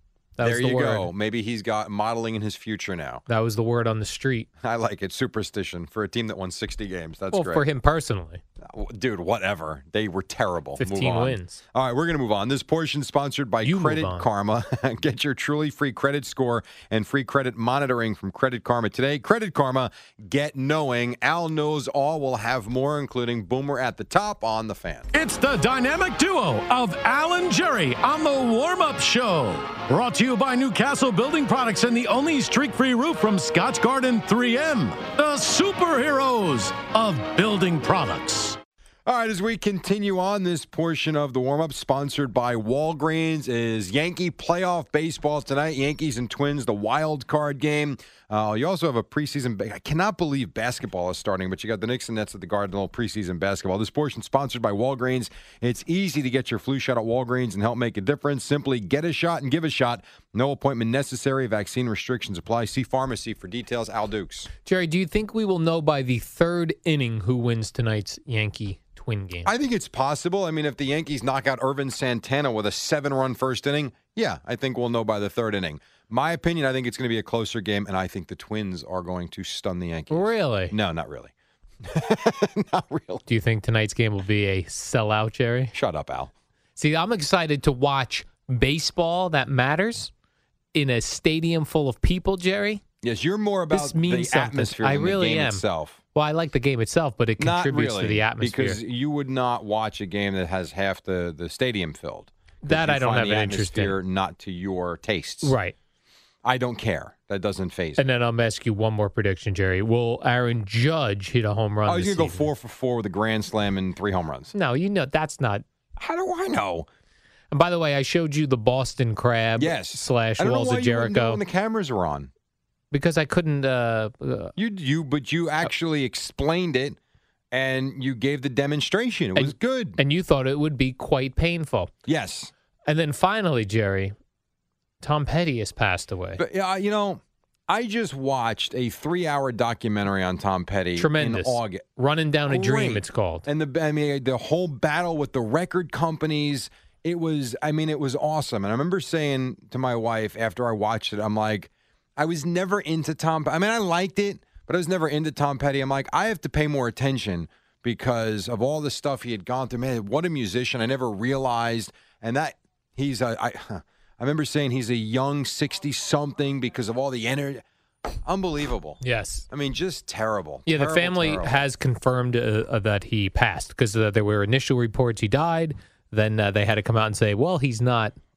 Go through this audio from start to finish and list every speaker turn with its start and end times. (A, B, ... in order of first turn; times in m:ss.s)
0:00.4-0:01.1 A
0:00.4-0:03.2 B
0:03.3-0:04.5 A
0:04.6-0:07.6 B
0:07.3-0:08.4 A
0:08.6-0:25.1 B
0:10.8-0:11.6 A
0:13.6-0:14.3 A
0:25.1-0:38.6 C
0:39.1-1:04.5 B
1:04.6-1:09.5 A
1:09.4-1:23.2 B
1:20.1-1:20.8 A
1:23.3-1:25.7 A
1:25.7-1:26.3 B
1:26.8-1:30.1 A
1:30.7-1:32.8 A
1:33.0-1:36.0 B
1:33.7-1:38.8 A
1:37.4-1:45.6 B
1:42.6-1:44.0 A
1:45.4-1:45.8 A
1:46.4-1:48.1 B
1:48.0-1:52.5 A
1:51.9-1:54.5 B
1:54.5-1:55.6 A
1:56.0-1:56.9 B
1:57.5-2:01.4 A
1:59.6-2:02.3 B
2:02.9-2:04.5 A
2:04.6-2:07.0 B
2:07.5-2:10.0 B
2:09.4-2:11.9 A
2:12.0-2:12.5 B
2:12.9-2:14.1 A
2:15.0-2:16.4 A
2:16.4-2:21.9 B
2:21.0-2:23.5 A
2:22.5-2:47.6 B
2:48.2-2:51.6 B
2:49.0-2:49.5 A
2:50.7-2:58.1 A